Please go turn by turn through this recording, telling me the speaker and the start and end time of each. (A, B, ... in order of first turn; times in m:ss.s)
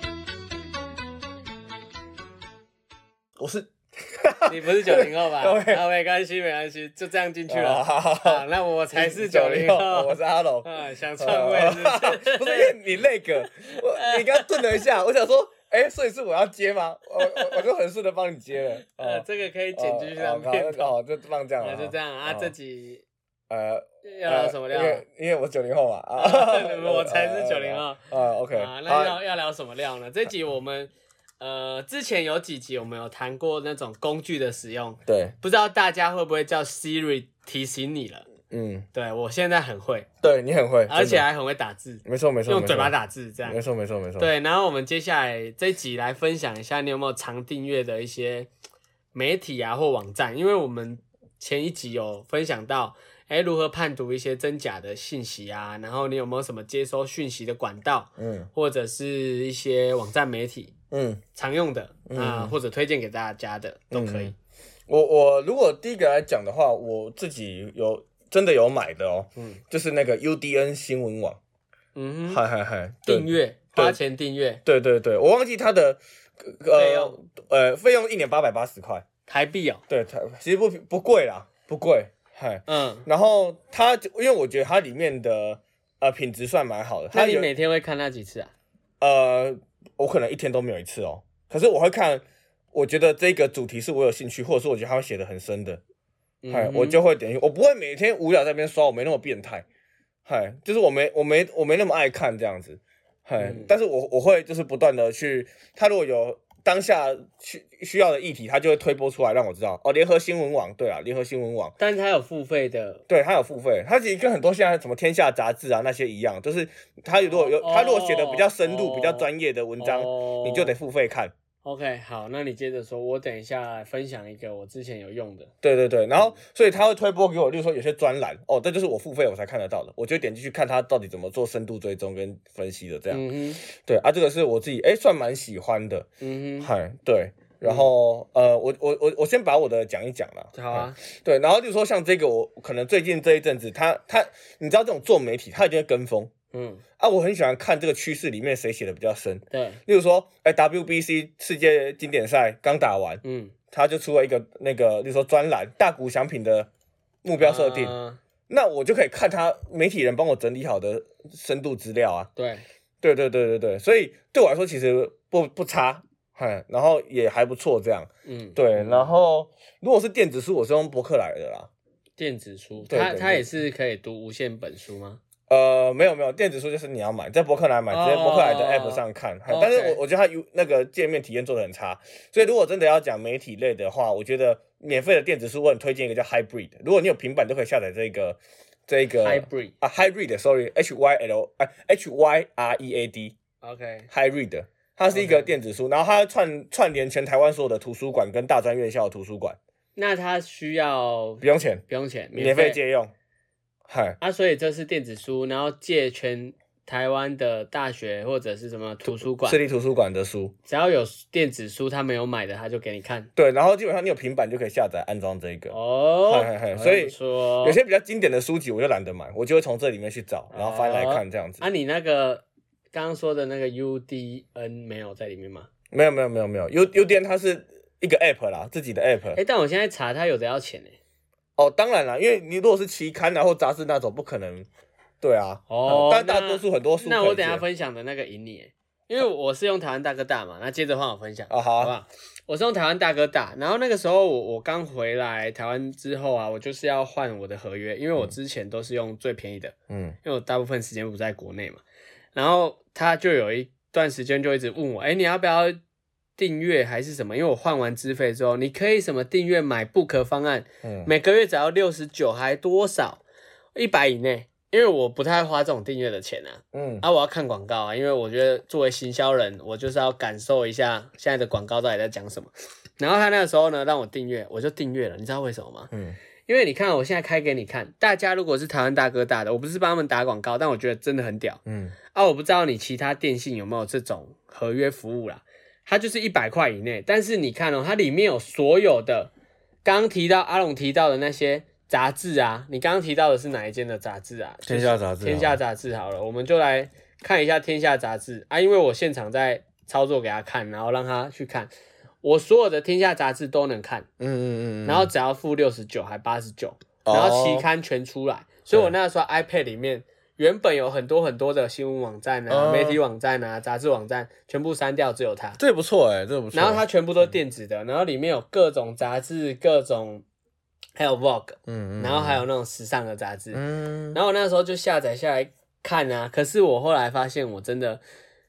0:03.4-0:05.8 A
0:04.5-0:12.8 B
0:07.5-0:22.5 A
0:13.4-0:14.6 B
0:17.2-0:17.6 B
0:18.8-0:20.9 B
0:21.6-0:23.0 B
0:23.5-0:29.2 A
0:24.0-0:25.0 B
0:26.2-0:30.9 B
0:31.4-0:38.3 B
0:35.1-0:35.3 A
0:38.5-0:38.9 A
0:38.9-0:40.1 B
0:40.2-0:41.2 A
0:40.9-0:43.6 B
0:42.0-0:44.3 A
0:44.2-0:48.5 B
0:49.1-1:00.7 B
0:58.2-0:58.5 A
1:00.9-1:01.2 A
1:01.3-1:04.3 B
1:02.1-1:02.5 A
1:03.9-1:04.3 A
1:04.9-1:11.4 A
1:09.4-1:09.6 B
1:12.0-1:12.4 B
1:12.3-1:14.0 A
1:13.0-1:14.6 B
1:14.6-1:19.0 A
1:16.7-1:17.2 B
1:19.3-1:19.8 B
1:19.9-1:27.5 A
1:22.7-1:23.0 B
1:27.1-1:28.5 B
1:29.0-1:35.8 A
1:36.4-1:37.0 B
1:36.5-1:39.6 A
1:40.2-1:51.7 A
1:43.4-1:43.7 B
1:51.8-1:53.0 B
1:53.1-2:01.3 A
1:57.2-1:59.3 B
1:59.8-2:00.8 B
2:01.6-2:05.5 B
2:05.6-2:16.0 A
2:13.1-2:13.6 B
2:16.2-2:16.7 B
2:16.6-2:26.3 A
2:17.6-2:17.9 B
2:20.5-2:21.0 B
2:26.5-2:26.8 B
2:27.0-2:36.7 A
2:29.5-2:29.8 B
2:33.2-2:33.5 B
2:37.2-2:37.9 A
2:37.4-2:38.2 B
2:38.5-2:42.3 A
2:42.4-2:42.6 B
2:43.0-2:51.7 A
2:48.2-2:49.1 B
2:52.2-2:55.2 B
2:52.9-2:53.5 A
2:55.5-3:13.4 A
2:57.9-3:00.0 B
3:09.2-3:09.7 B
3:13.6-3:14.1 B
3:14.1-3:19.6 A
3:15.1-3:15.5 B
3:19.9-3:22.8 B
3:21.4-3:23.1 A
3:23.9-3:24.2 A
3:24.2-3:29.6 B
3:29.0-3:30.5 A
3:30.6-3:33.3 B
3:33.4-3:35.7 A
3:35.7-3:37.8 B
3:36.2-3:41.6 A
3:40.5-3:45.7 B
3:45.9-3:49.4 A
3:49.3-3:51.0 B
3:51.6-3:54.7 A
3:55.2-3:57.6 A
3:55.7-4:11.8 B
4:01.5-4:01.9 A
4:09.9-4:10.2 A
4:12.3-4:15.8 B
4:16.4-4:23.2 B
4:20.8-4:21.1 A
4:23.7-4:35.9 B
4:26.7-4:27.0 A
4:36.5-4:41.6 B
4:41.6-4:41.9 A
4:42.1-4:49.3 B
4:49.8-5:01.7 B
4:54.6-4:55.6 A
5:02.2-5:04.1 B
5:04.2-5:05.1 A
5:04.8-5:15.6 B
5:07.0-5:07.7 A
5:12.5-5:13.0 A
5:15.6-5:17.3 A
5:16.5-5:20.2 B
5:21.0-5:28.0 B
5:21.7-5:22.4 A
5:23.5-5:24.2 A